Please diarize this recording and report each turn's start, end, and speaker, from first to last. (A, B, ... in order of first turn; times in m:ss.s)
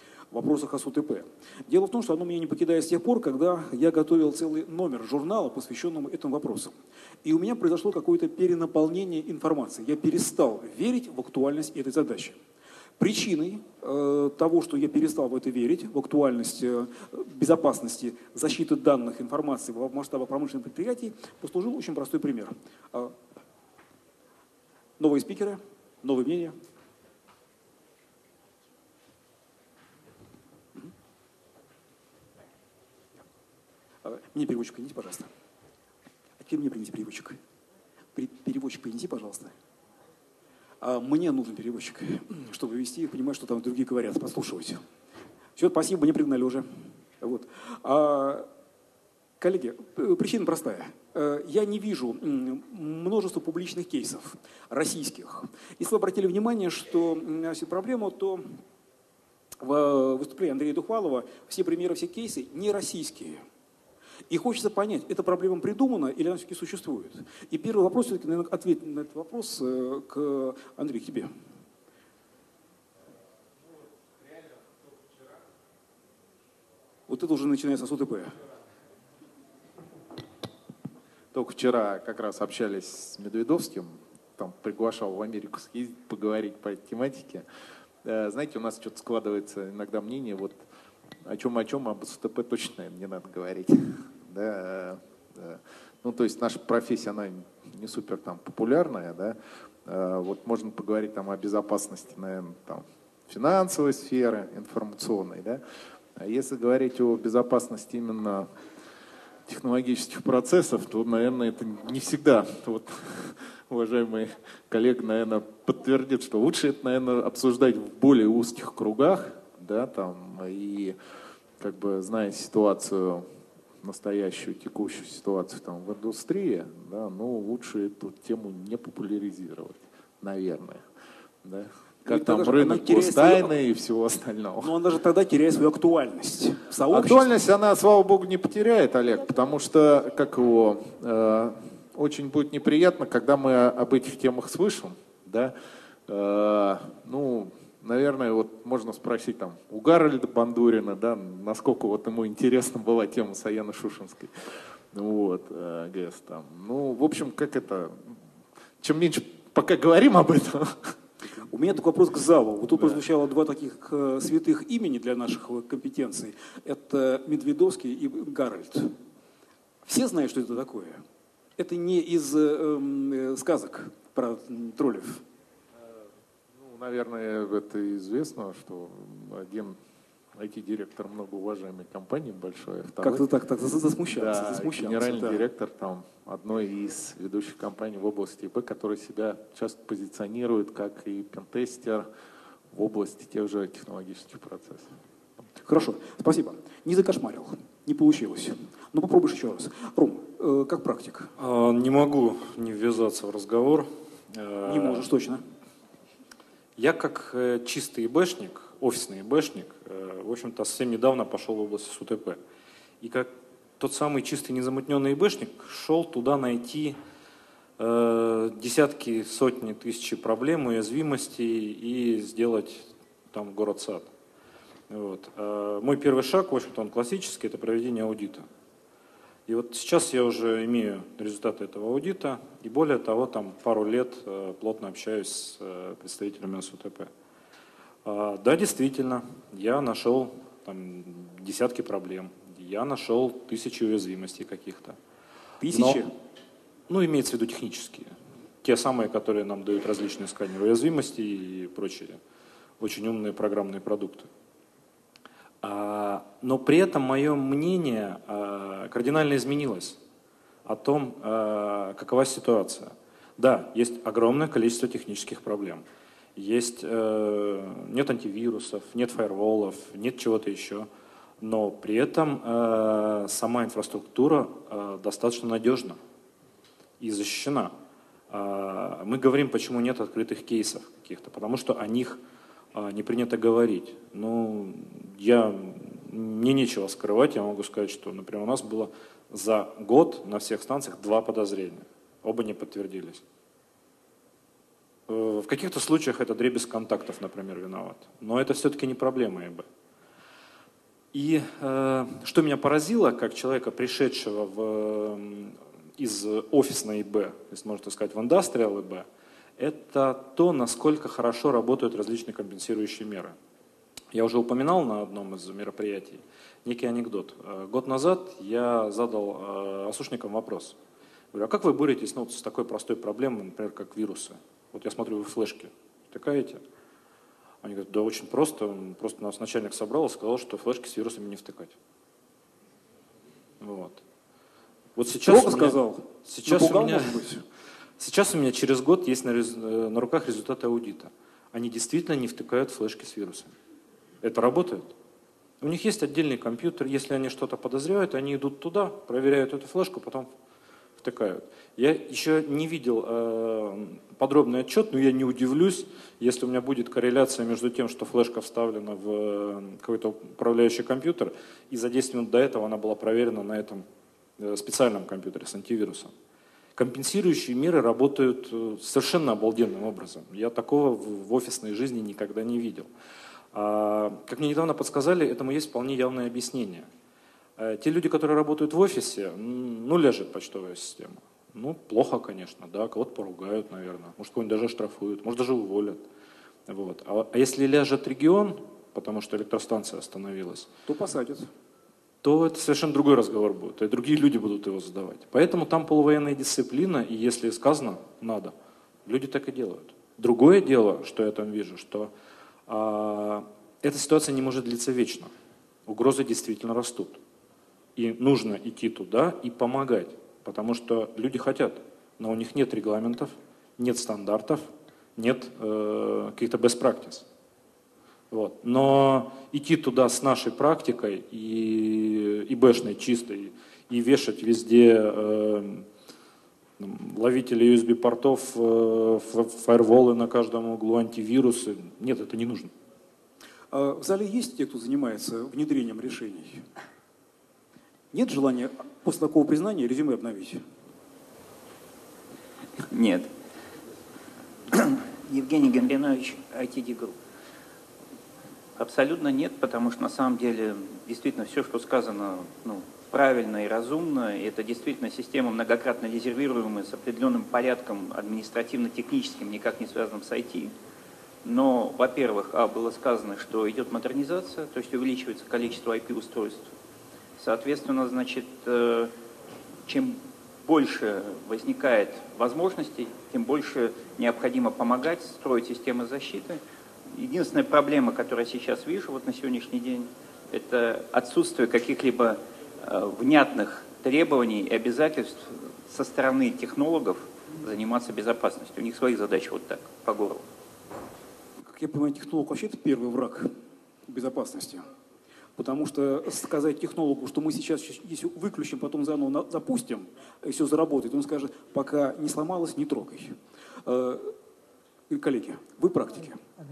0:00.3-0:12.4 A
0:13.0-0:23.2 A
0:25.0-0:26.6 A
0:34.0-0:35.3 A
0:36.4-0:37.4 A
0:38.2-0:39.5 A
0:40.8-0:44.8 A
0:45.6-0:46.7 A
0:47.2-0:48.5 A
0:49.4-0:58.6 A
0:59.6-1:03.4 A
1:04.3-1:11.3 A
1:17.1-1:18.3 A
1:21.3-1:27.4 B
1:28.0-1:30.6 B
1:31.2-1:45.6 B
1:46.2-1:48.5 B
1:49.5-2:01.0 B
2:01.6-2:03.3 B
2:03.8-2:10.8 B
2:11.4-2:14.8 B
2:12.1-2:13.5 A
2:14.6-2:17.3 A
2:16.9-2:25.5 B
2:26.1-2:34.4 B
2:34.9-2:38.0 B
2:38.8-2:41.0 B
2:41.4-2:49.0 A
2:42.7-2:43.0 B
2:49.8-2:51.0 A
2:51.6-2:55.2 A
2:56.6-2:59.8 B
3:00.4-3:03.2 B
3:03.0-3:05.4 A
3:04.1-3:12.1 B
3:12.7-3:14.9 B
3:15.6-3:21.3 A
3:21.4-3:25.1 C
3:24.7-3:25.4 A
3:26.8-3:32.4 C
3:33.0-3:37.0 C
3:37.8-3:44.1 C
3:44.9-3:48.5 C
3:49.5-3:57.1 C
3:58.0-4:05.0 C
4:05.6-4:06.1 A
4:05.7-4:06.1 C
4:06.9-4:12.2 C
4:12.8-4:14.3 C
4:15.6-4:20.0 C
4:20.6-4:25.8 C
4:26.4-4:30.9 C
4:31.4-4:36.0 C
4:37.0-4:37.7 C
4:38.3-4:42.2 C
4:42.7-4:53.2 C
4:55.1-4:59.7 C
5:01.1-5:09.1 C
5:09.6-5:13.4 C
5:14.1-5:20.8 C
5:21.3-5:26.6 C
5:27.6-5:31.8 C
5:33.6-5:34.0 C
5:35.0-5:37.2 C
5:35.2-5:37.4 A
5:38.0-5:43.5 C
5:44.2-5:44.9 C
5:45.6-5:50.3 C
5:51.0-6:03.8 C
6:04.4-6:06.1 C
6:06.8-6:12.9 C
6:13.5-6:16.9 C
6:17.6-6:26.0 C
6:26.7-6:30.7 C
6:30.9-6:31.5 A
6:32.2-6:38.5 C
6:39.0-6:42.1 C
6:42.7-6:45.3 C
6:45.9-6:47.2 C
6:48.0-6:57.2 C
6:58.3-7:05.9 C
7:06.8-7:12.7 C
7:13.7-7:16.7 A
7:18.1-7:20.6 A
7:22.9-7:23.3 D
7:24.7-7:27.2 D
7:28.8-7:40.7 D
7:41.4-7:46.7 D
7:47.4-7:49.1 D
7:49.9-8:10.5 D
8:11.6-8:13.5 A
8:14.1-8:14.9 A
8:15.6-8:24.3 A
8:25.1-8:26.4 A